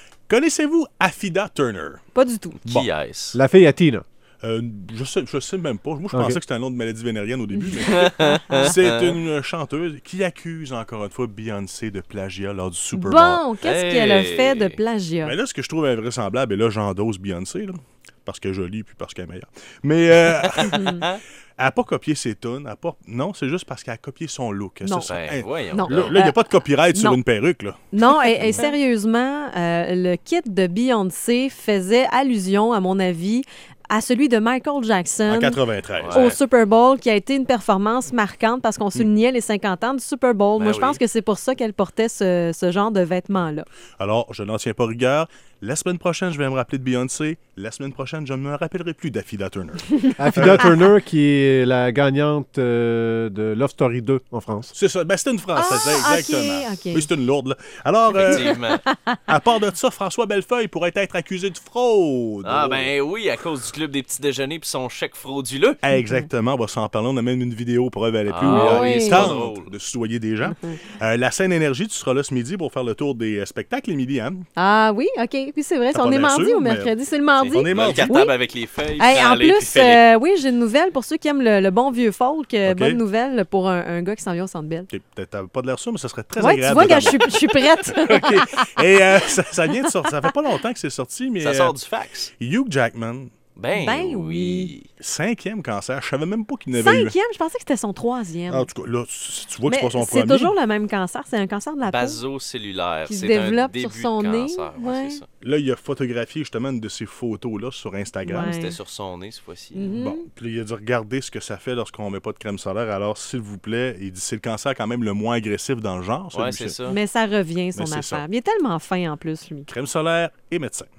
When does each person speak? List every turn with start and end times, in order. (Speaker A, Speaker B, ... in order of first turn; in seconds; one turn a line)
Speaker A: 0.3-2.0
Speaker B: 2.1-2.6
Speaker C: 2.6-3.4
Speaker D: 3.3-4.0
Speaker A: 4.4-13.4
Speaker D: 6.1-6.4
Speaker C: 7.9-8.9
Speaker B: 8.0-8.7
Speaker B: 12.9-15.3
Speaker C: 13.6-14.8
Speaker A: 15.2-21.0
Speaker C: 20.6-21.2
Speaker B: 20.7-21.0
Speaker A: 21.6-27.8
Speaker B: 24.8-25.1
Speaker C: 25.1-26.2
Speaker B: 25.7-27.2
Speaker B: 27.9-35.6
Speaker A: 28.4-28.7
Speaker A: 35.3-36.2
Speaker C: 36.0-36.4
Speaker B: 36.1-43.7
Speaker C: 40.6-41.0
Speaker A: 44.0-50.8
Speaker D: 50.2-54.7
Speaker A: 54.7-58.6
Speaker B: 55.5-57.1
Speaker C: 58.1-58.8
Speaker B: 58.3-59.2
Speaker A: 59.3-62.9
Speaker C: 62.5-65.8
Speaker A: 65.8-74.5
Speaker B: 65.9-66.3
Speaker C: 68.3-69.7
Speaker B: 68.5-69.3
Speaker B: 70.4-70.8
Speaker B: 74.6-78.3
Speaker A: 75.9-76.9
Speaker C: 77.3-80.0
Speaker A: 77.5-78.1
Speaker B: 79.0-84.9
Speaker A: 82.7-83.0
Speaker A: 84.9-91.8
Speaker B: 86.4-88.7
Speaker B: 89.7-90.0
Speaker C: 91.4-92.3
Speaker A: 92.4-93.3
Speaker C: 93.6-94.9
Speaker B: 93.7-94.7
Speaker A: 95.0-97.1
Speaker B: 96.7-98.7
Speaker A: 98.5-100.5
Speaker B: 99.7-102.2
Speaker C: 101.8-105.2
Speaker B: 103.1-105.2
Speaker A: 105.4-108.5
Speaker B: 108.2-108.8
Speaker C: 108.4-110.0
Speaker B: 109.8-110.3
Speaker A: 110.0-116.8
Speaker C: 116.3-117.0
Speaker B: 116.9-119.7
Speaker A: 117.8-118.2
Speaker A: 119.7-120.9